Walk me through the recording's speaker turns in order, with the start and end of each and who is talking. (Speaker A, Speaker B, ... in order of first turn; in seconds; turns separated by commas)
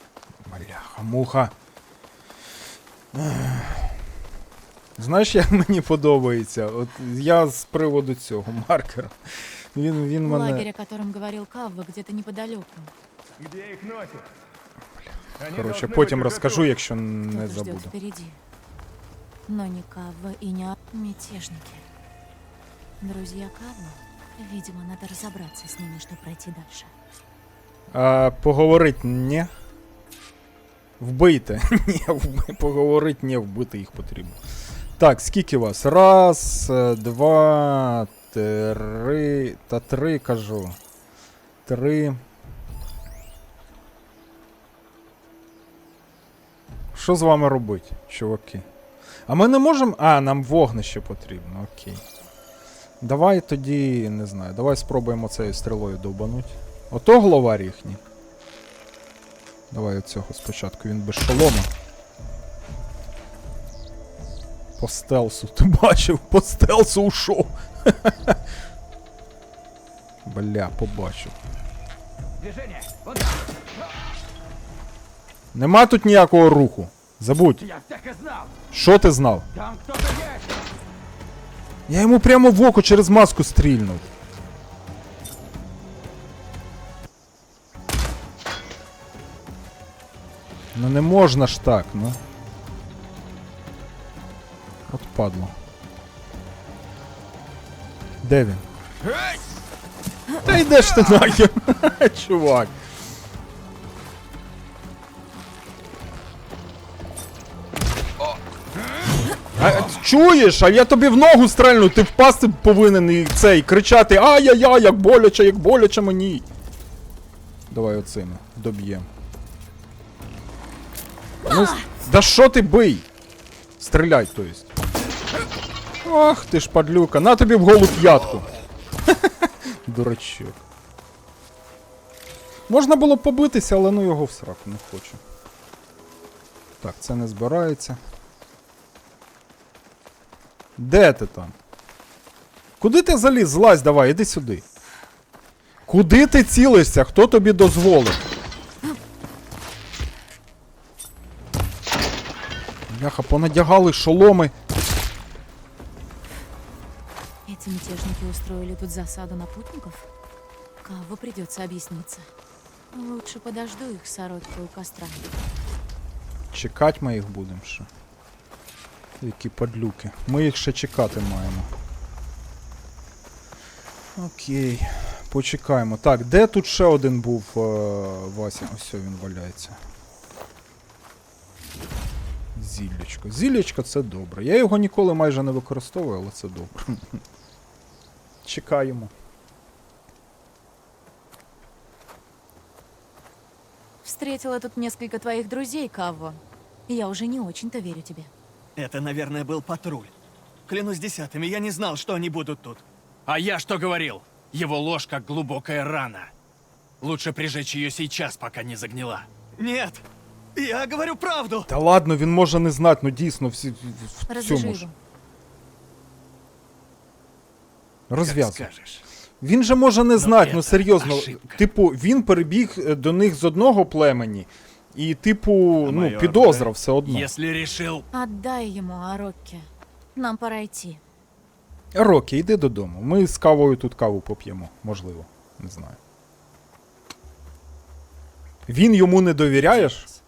Speaker A: 0.4-1.5, Speaker A: 3.1-4.0, Speaker A: 5.0-9.2, Speaker A: 9.7-10.7, Speaker B: 10.2-12.9, Speaker C: 13.4-14.3, Speaker C: 15.4-16.6, Speaker A: 15.5-17.9, Speaker B: 17.3-18.4, Speaker B: 19.5-21.8, Speaker B: 23.0-26.9, Speaker A: 27.9-29.5, Speaker A: 31.0-34.4, Speaker A: 35.0-40.8, Speaker A: 41.6-42.2, Speaker A: 46.9-48.6, Speaker A: 49.3-52.0, Speaker A: 53.0-58.0, Speaker A: 59.7-61.7, Speaker A: 64.8-68.4, Speaker A: 70.2-71.3, Speaker C: 72.5-73.1, Speaker A: 75.5-77.7, Speaker C: 77.7-78.4, Speaker A: 78.7-79.5, Speaker C: 79.7-80.3, Speaker A: 81.9-84.1, Speaker A: 90.7-92.2, Speaker A: 94.9-95.6, Speaker A: 98.2-98.6, Speaker A: 100.4-102.7, Speaker A: 109.5-116.5, Speaker A: 117.7-119.1, Speaker A: 121.4-123.1, Speaker A: 123.8-124.7, Speaker A: 126.0-128.5, Speaker A: 129.1-130.6, Speaker A: 132.7-135.2, Speaker A: 136.8-138.0, Speaker A: 140.8-141.6, Speaker A: 142.8-144.6, Speaker A: 145.8-148.2, Speaker A: 152.9-154.5, Speaker B: 157.4-160.1, Speaker B: 160.8-162.3, Speaker B: 162.9-165.3, Speaker A: 166.5-167.9, Speaker A: 169.2-171.7, Speaker A: 174.2-179.8, Speaker A: 182.5-187.2, Speaker A: 188.4-189.1, Speaker B: 194.0-198.3, Speaker D: 198.8-200.1, Speaker D: 200.7-202.8, Speaker E: 203.3-206.3, Speaker E: 207.0-209.3, Speaker D: 209.6-210.0, Speaker D: 210.5-211.7, Speaker A: 211.7-214.9, Speaker B: 214.3-214.9, Speaker A: 218.1-218.7, Speaker E: 218.2-219.0, Speaker A: 219.4-227.3, Speaker E: 220.2-221.6, Speaker D: 225.8-226.7, Speaker E: 227.0-228.1, Speaker B: 228.1-231.0, Speaker A: 231.9-236.0, Speaker A: 238.7-240.1